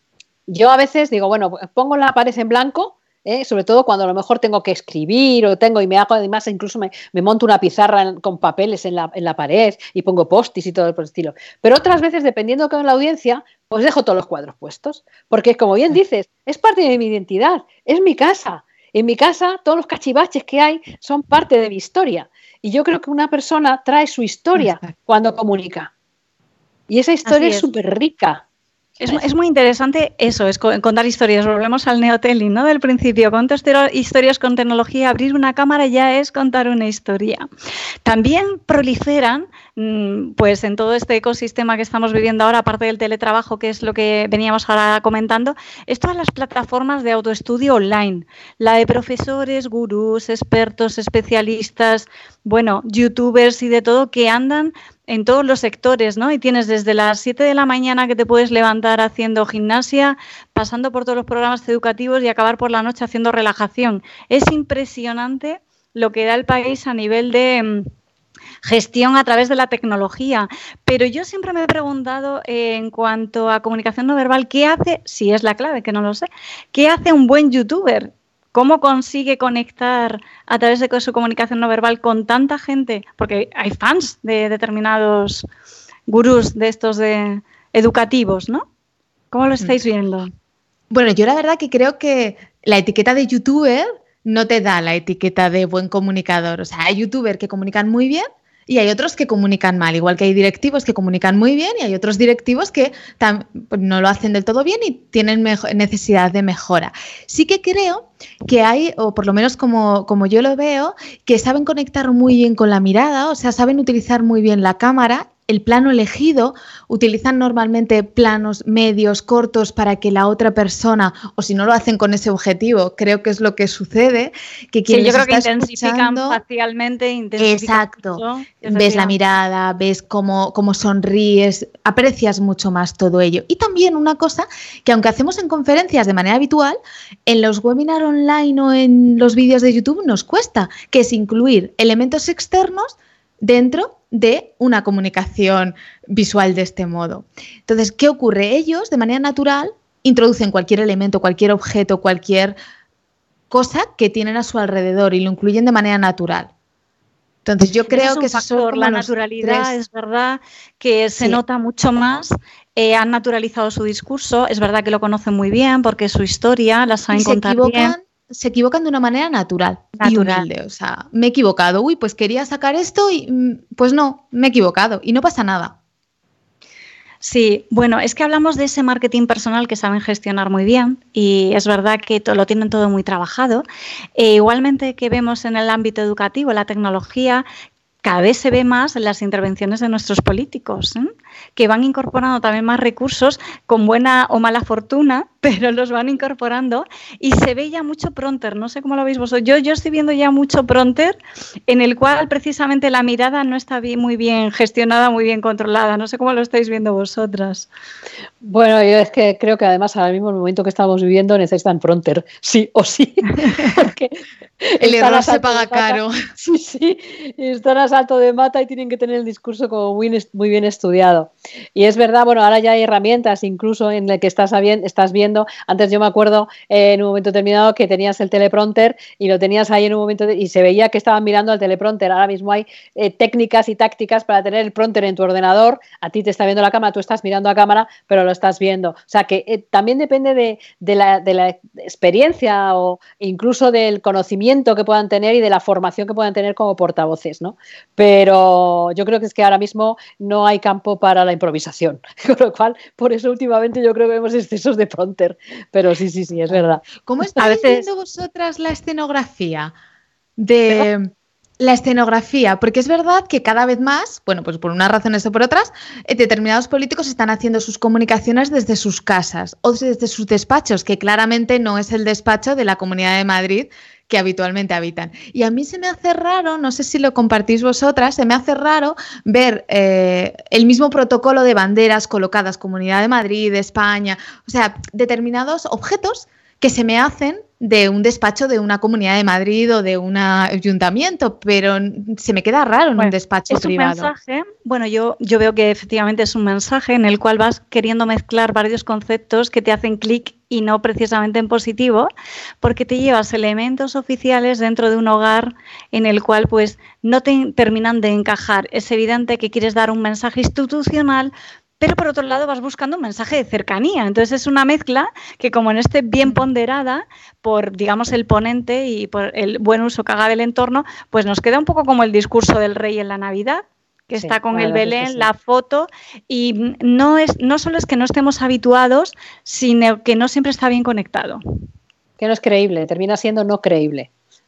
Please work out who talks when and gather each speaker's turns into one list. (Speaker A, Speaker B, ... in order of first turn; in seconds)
Speaker A: 0.5-25.9, 26.9-28.4, 208.4-256.8, 324.2-325.3, 332.2-334.1
Speaker B: 27.3-27.7, 29.0-37.5, 38.0-67.9, 68.6-85.5, 86.1-88.7, 89.3-90.3, 124.9-129.2, 157.9-167.9, 170.0-170.5, 177.2-183.6, 184.2-187.4, 188.0-201.2, 201.7-207.7, 257.4-257.9, 293.0-302.1, 302.6-331.4
Speaker C: 90.9-126.4, 127.4-152.6, 153.5-156.5, 157.4-159.7, 167.1-175.8, 214.8-216.3, 256.5-259.7, 260.4-294.1